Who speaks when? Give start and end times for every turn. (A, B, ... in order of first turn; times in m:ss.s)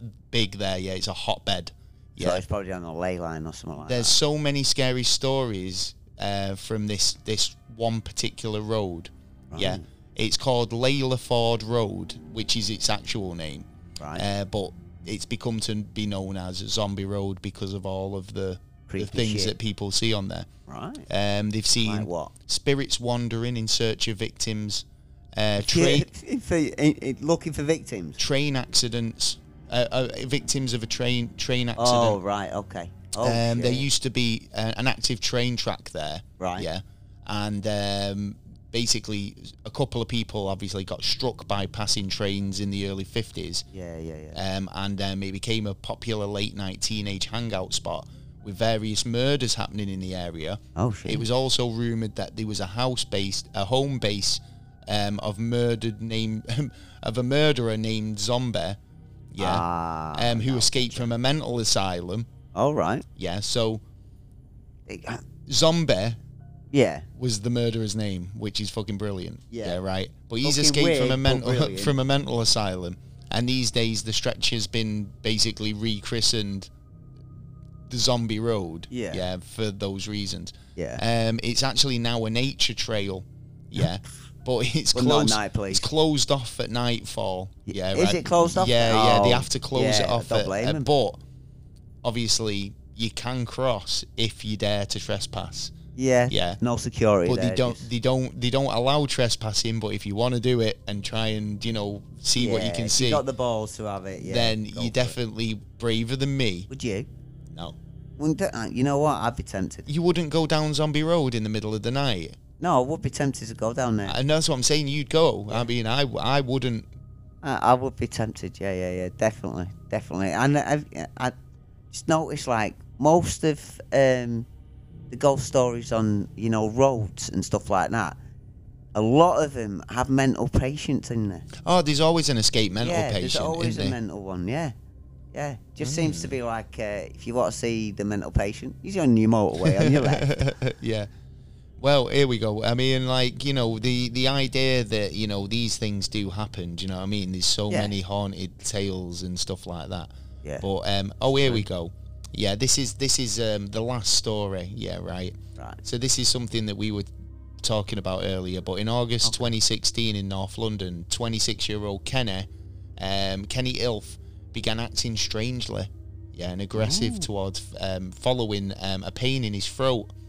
0:00.3-0:02.4 A
0:02.2-0:04.2 B
0:03.8-0:20.5 A
0:09.5-0:09.8 B
0:14.0-0:14.2 B
0:18.9-0:19.5 B
0:20.7-0:21.1 B
0:21.1-0:26.1 A
0:21.8-0:22.3 B
0:25.6-0:28.2 B
0:28.2-0:32.2 A
0:31.8-0:33.9 B
0:33.2-0:43.6 A
0:36.4-0:36.7 B
0:43.7-0:44.4 B
0:44.3-0:58.8 A
0:50.8-0:51.2 B
0:59.3-1:02.3 A
0:59.4-1:01.1 B
1:02.5-1:03.0 B
1:03.2-1:03.8 A
1:04.9-1:05.2 B
1:05.5-1:06.2 A
1:06.7-1:07.1 B
1:07.1-1:16.7 A
1:09.5-1:09.8 B
1:10.4-1:12.0 B
1:17.9-1:31.2 A
1:18.9-1:19.2 B
1:20.8-1:21.0 B
1:24.9-1:25.9 B
1:27.7-1:30.9 B
1:32.0-1:35.7 A
1:36.0-1:37.9 B
1:36.3-1:36.6 A
1:37.2-1:43.2 A
1:42.4-1:45.2 B
1:44.2-1:46.7 A
1:46.7-1:47.1 B
1:47.5-1:47.8 A
1:48.2-1:49.9 B
1:49.9-1:52.4 A
1:52.6-1:54.2 B
1:54.0-1:56.9 A
1:57.4-2:01.3 B
2:01.9-2:04.5 B
2:05.1-2:08.2 B
2:08.9-2:11.5 B
2:11.6-2:14.0 A
2:12.8-2:14.7 B
2:15.3-2:20.5 B
2:15.8-2:16.4 A
2:19.6-2:21.1 A
2:21.8-2:37.1 A
2:27.7-2:27.9 B
2:37.6-2:50.1 A
2:46.7-2:47.3 B